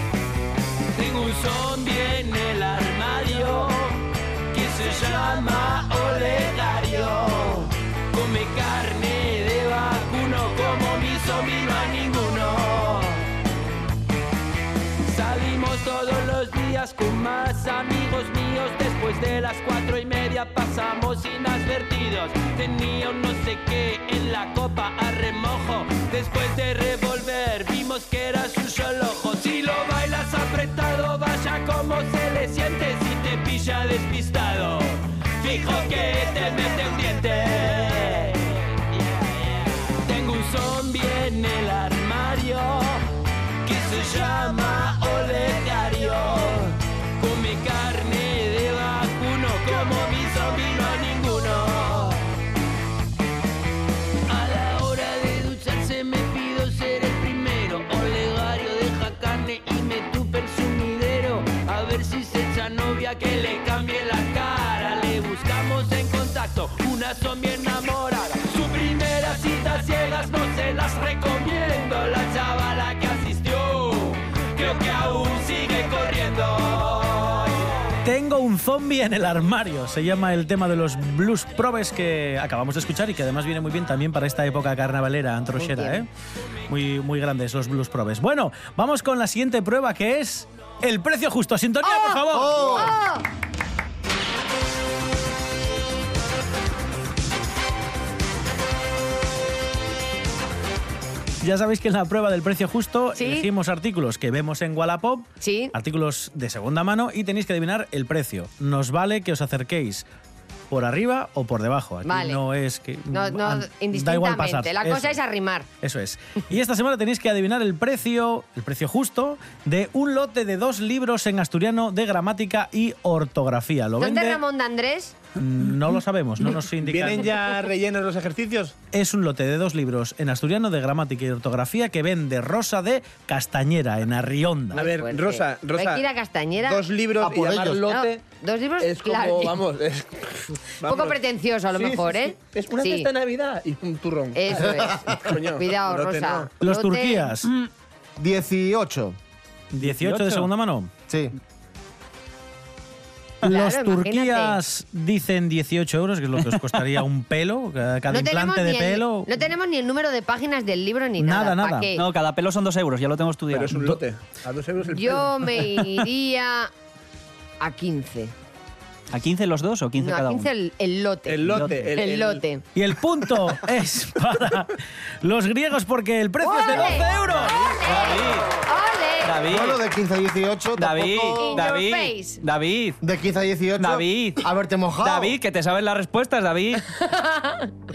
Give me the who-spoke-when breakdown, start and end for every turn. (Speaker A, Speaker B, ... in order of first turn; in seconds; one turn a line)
Speaker A: 0.9-13.3
Speaker A: 15.1-43.0
Speaker A: 43.6-52.2
Speaker A: 54.3-77.9
Speaker B: 78.0-86.1
Speaker C: 85.6-86.0
Speaker B: 86.7-92.9
Speaker C: 91.8-93.2
Speaker D: 92.3-93.0
Speaker B: 101.4-110.1
Speaker C: 103.2-103.5
Speaker C: 105.4-105.7
Speaker B: 110.7-115.2
Speaker C: 112.0-112.4
Speaker C: 113.1-115.7
Speaker B: 115.8-124.4
Speaker C: 124.0-125.2
Speaker B: 125.4-127.3
Speaker E: 126.8-128.8
Speaker B: 128.9-134.8
Speaker C: 134.7-136.9
Speaker E: 134.7-136.0
Speaker E: 136.7-138.2
Speaker D: 137.2-137.9
Speaker C: 137.8-139.6
Speaker E: 138.8-141.2
Speaker C: 140.8-143.1
Speaker E: 141.7-146.5
Speaker C: 144.3-147.3
Speaker D: 144.7-145.2
Speaker B: 146.6-147.5
Speaker F: 147.4-147.7
Speaker D: 148.2-149.2
Speaker B: 149.7-150.9
Speaker F: 149.8-150.5
Speaker D: 151.1-151.3
Speaker B: 153.4-159.3
Speaker C: 153.4-154.6
Speaker F: 156.5-156.8
Speaker C: 158.1-162.0
Speaker B: 161.2-161.9
Speaker F: 161.9-164.0
Speaker E: 163.5-165.7
Speaker C: 164.9-166.7
Speaker C: 167.6-168.3
Speaker F: 169.1-170.5
Speaker C: 170.0-172.6
Speaker E: 171.3-172.4
Speaker F: 171.5-171.9
Speaker B: 172.8-178.0
Speaker C: 176.4-179.4
Speaker F: 177.3-178.6
Speaker F: 179.2-179.8
Speaker D: 179.5-181.7
Speaker F: 180.8-183.0
Speaker C: 181.4-182.4
Speaker D: 183.0-185.3
Speaker F: 183.8-184.5
Speaker F: 185.0-186.9
Speaker C: 186.9-187.7